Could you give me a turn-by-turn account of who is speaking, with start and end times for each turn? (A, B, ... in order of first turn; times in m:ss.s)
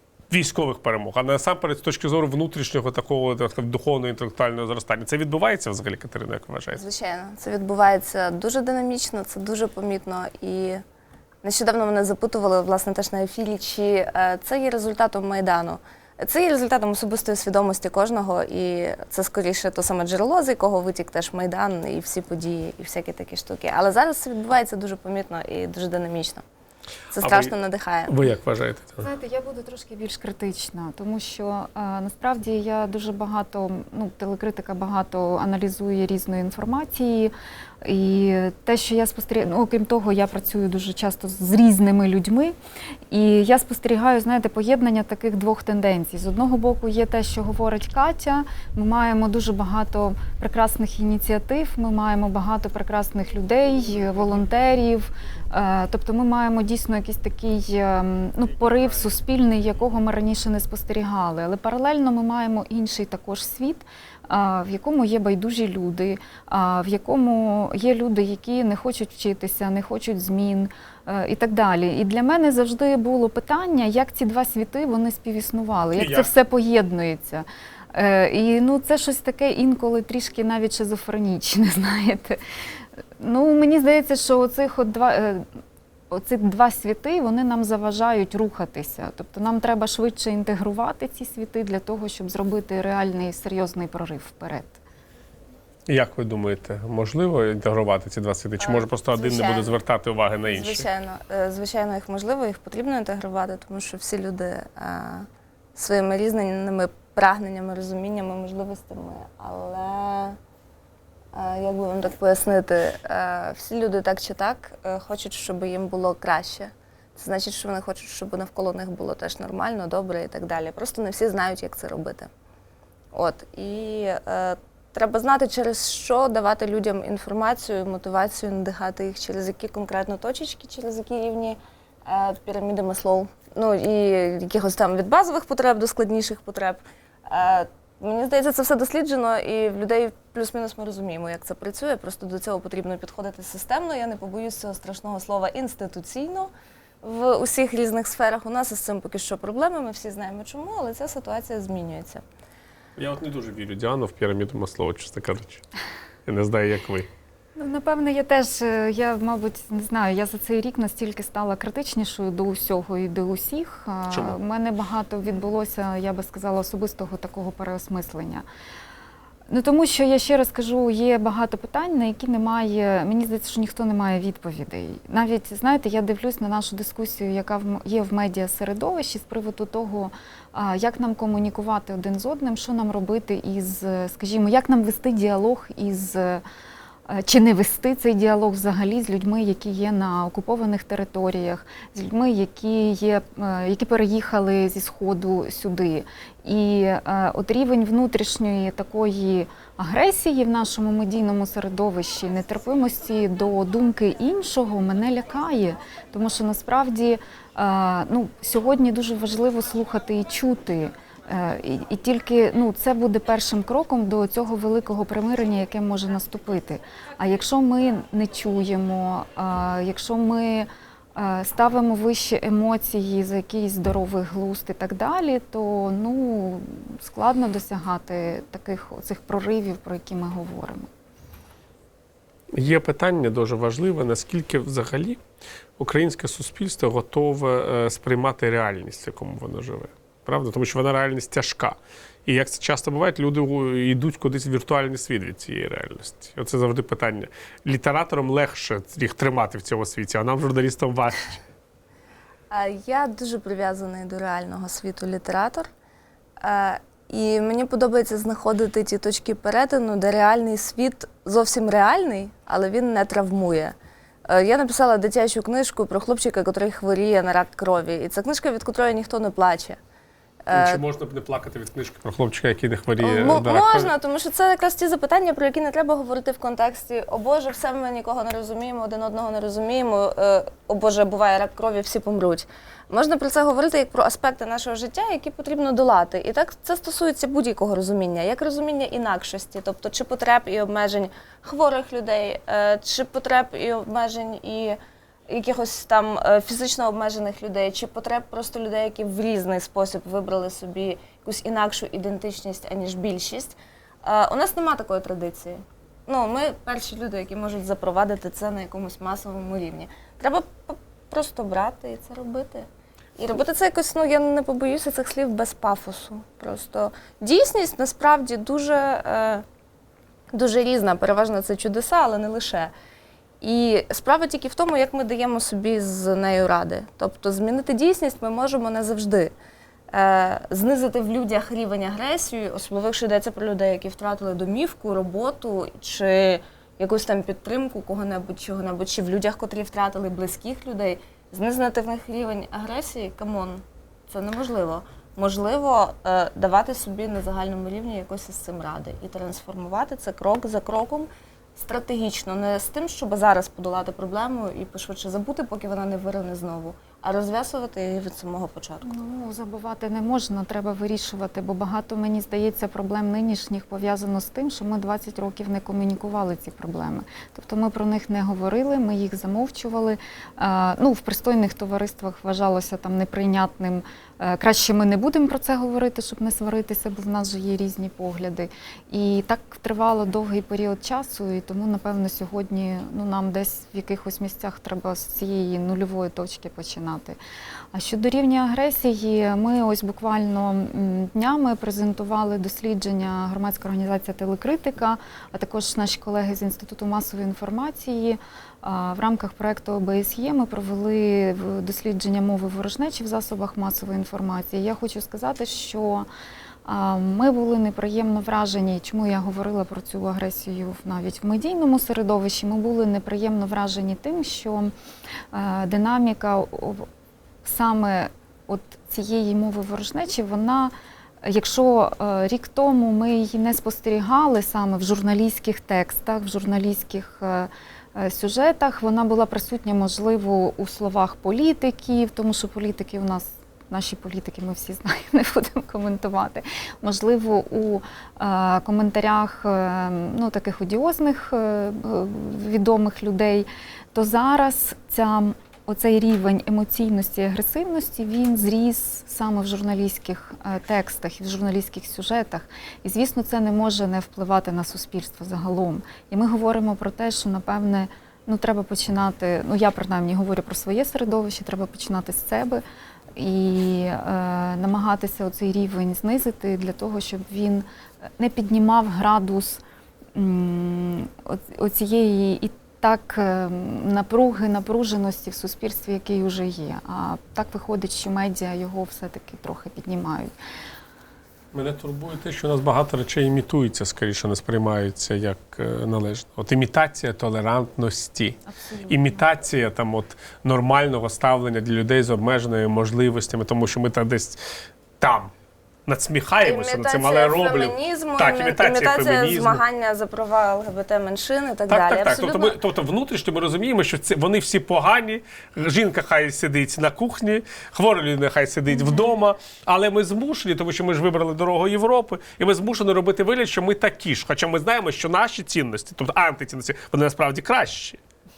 0:00.3-0:06.8 A
0:06.7-0:10.8 B
0:11.4-0:26.4 B
0:27.1-0:28.2 B
0:27.2-0:27.5 A
0:28.1-0:29.1 A
0:29.0-0:42.6 C
0:43.1-1:22.4 C
1:16.0-1:16.3 A
1:23.2-1:25.4 C
1:26.1-1:34.8 C
1:35.9-1:40.8 A
1:38.6-1:39.8 B
1:40.4-1:50.4 B
1:51.3-2:02.3 B
2:03.1-2:26.5 B
2:27.0-2:32.2 B
2:33.0-2:35.6 A
2:36.2-2:37.1 A
2:37.6-2:48.4 C
2:44.1-2:44.4 A
2:49.5-3:06.4 C
3:07.1-3:50.9 C
3:52.6-3:55.2 A
3:55.8-4:11.4 A
4:12.5-4:15.7 B
4:16.4-4:23.7 B
4:24.3-4:29.8 B
4:30.5-4:30.8 B
4:30.5-4:33.9 A
4:33.0-4:54.8 B
4:55.3-5:12.6 B
5:13.2-5:19.4 B
5:20.3-5:22.7 B
5:23.4-5:29.3 B
5:29.9-5:58.9 B
5:58.8-6:27.2 C
6:27.7-6:46.1 C
6:46.6-6:54.7 C
6:55.3-6:56.8 C
6:57.4-7:42.6 C
7:43.2-7:49.6 C
7:50.1-8:00.3 C
8:01.5-8:14.4 A
8:08.4-8:09.2 C
8:15.0-8:15.3 A
8:15.8-8:19.6 A
8:16.4-8:22.6 B
8:21.7-8:38.0 A